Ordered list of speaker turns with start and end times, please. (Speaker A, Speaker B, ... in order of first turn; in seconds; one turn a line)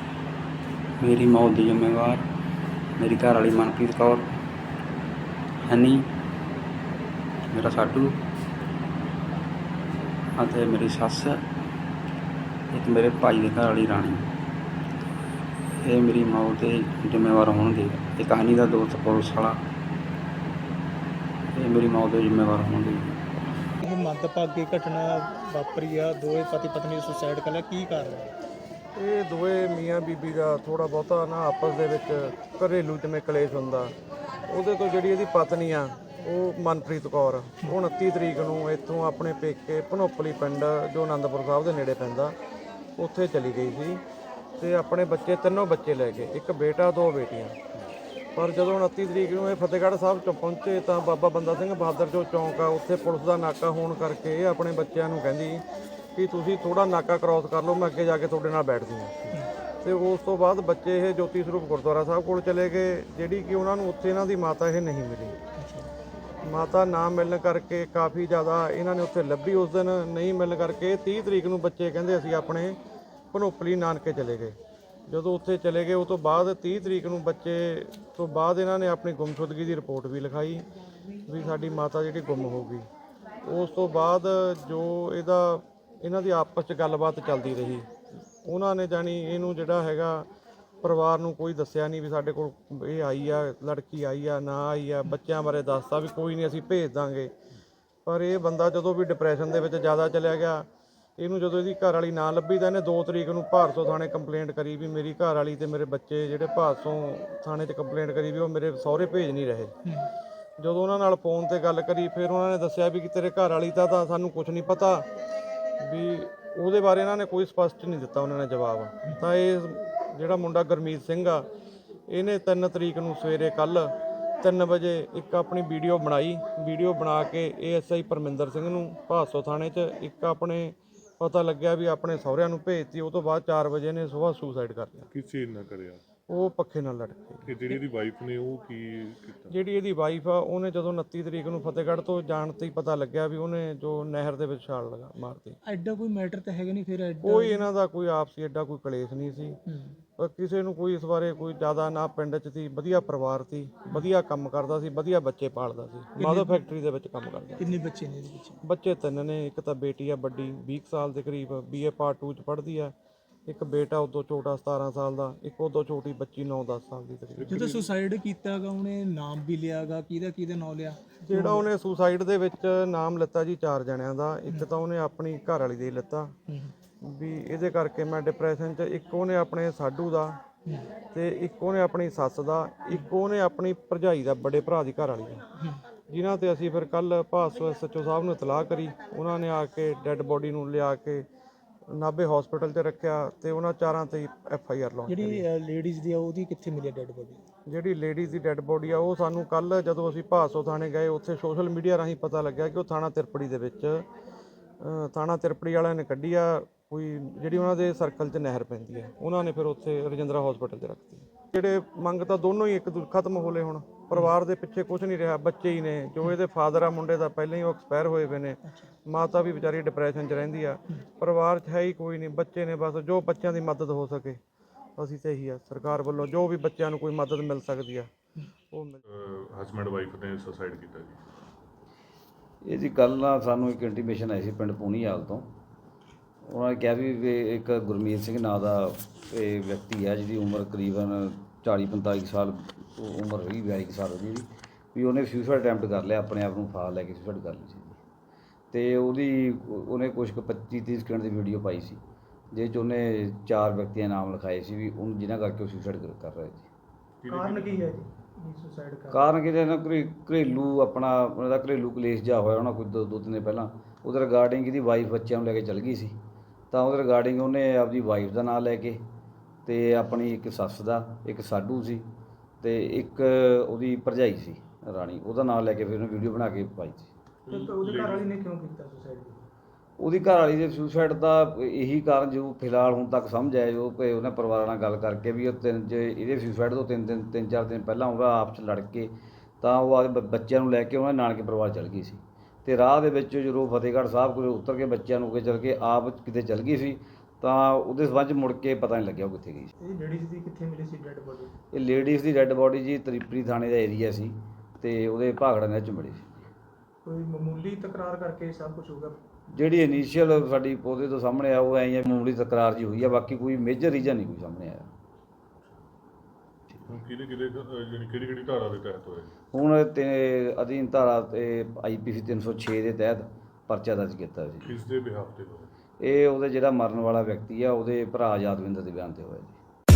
Speaker A: 1.0-2.2
Speaker A: 3.0-4.4
Speaker A: 5.7-6.1
Speaker A: 7.5-8.2
Speaker A: 10.4-11.4
Speaker A: 12.7-14.2
Speaker A: 15.8-19.6
Speaker A: 21.5-23.1
Speaker B: 23.8-28.3
Speaker C: 28.9-33.9
Speaker C: 34.5-42.3
Speaker C: 43.0-44.0
Speaker C: 44.6-47.6
Speaker C: 48.4-55.6
Speaker C: 56.1-59.1
Speaker C: 59.8-65.3
Speaker B: 65.6-65.9
Speaker C: 66.4-72.8
Speaker C: 73.3-74.5
Speaker C: 75.1-80.7
Speaker C: 81.3-82.8
Speaker C: 83.4-87.9
Speaker C: 88.4-90.2
Speaker C: 90.8-97.3
Speaker C: 98.0-100.7
Speaker C: 101.2-109.7
Speaker C: 110.6-115.0
Speaker C: 115.8-121.5
Speaker C: 122.1-135.1
Speaker D: 135.1-136.0
Speaker C: 136.3-137.5
Speaker D: 137.4-139.6
Speaker C: 139.5-145.6
Speaker B: 145.6-147.6
Speaker C: 147.2-149.6
Speaker B: 149.7-149.9
Speaker C: 150.2-157.6
Speaker B: 157.6-158.6
Speaker C: 158.6-162.9
Speaker C: 163.5-167.7
Speaker D: 167.3-167.9
Speaker B: 167.5-171.6
Speaker C: 171.3-176.3
Speaker C: 177.0-180.4
Speaker C: 181.1-185.4
Speaker C: 186.1-191.3
Speaker C: 191.9-195.4
Speaker B: 195.1-197.4
Speaker C: 197.7-204.0
Speaker C: 204.8-224.4
Speaker C: 225.0-228.1
Speaker C: 228.7-229.0
Speaker D: 229.1-231.2
Speaker E: 232.6-235.5
Speaker E: 236.4-248.0
Speaker E: 248.7-252.0
Speaker E: 252.5-256.6
Speaker D: 257.2-257.9
Speaker B: 257.3-259.2
Speaker E: 259.1-266.1
Speaker E: 266.7-269.0
Speaker E: 269.6-272.0
Speaker E: 272.6-277.1
Speaker D: 277.4-278.3
Speaker B: 277.5-279.5
Speaker E: 280.0-299.7
Speaker B: 299.8-301.5
Speaker E: 301.7-306.5
Speaker B: 307.0-309.2
Speaker E: 309.5-314.9
Speaker D: 316.9-319.3
Speaker E: 319.5-324.7
Speaker D: 324.6-325.7
Speaker E: 326.0-329.6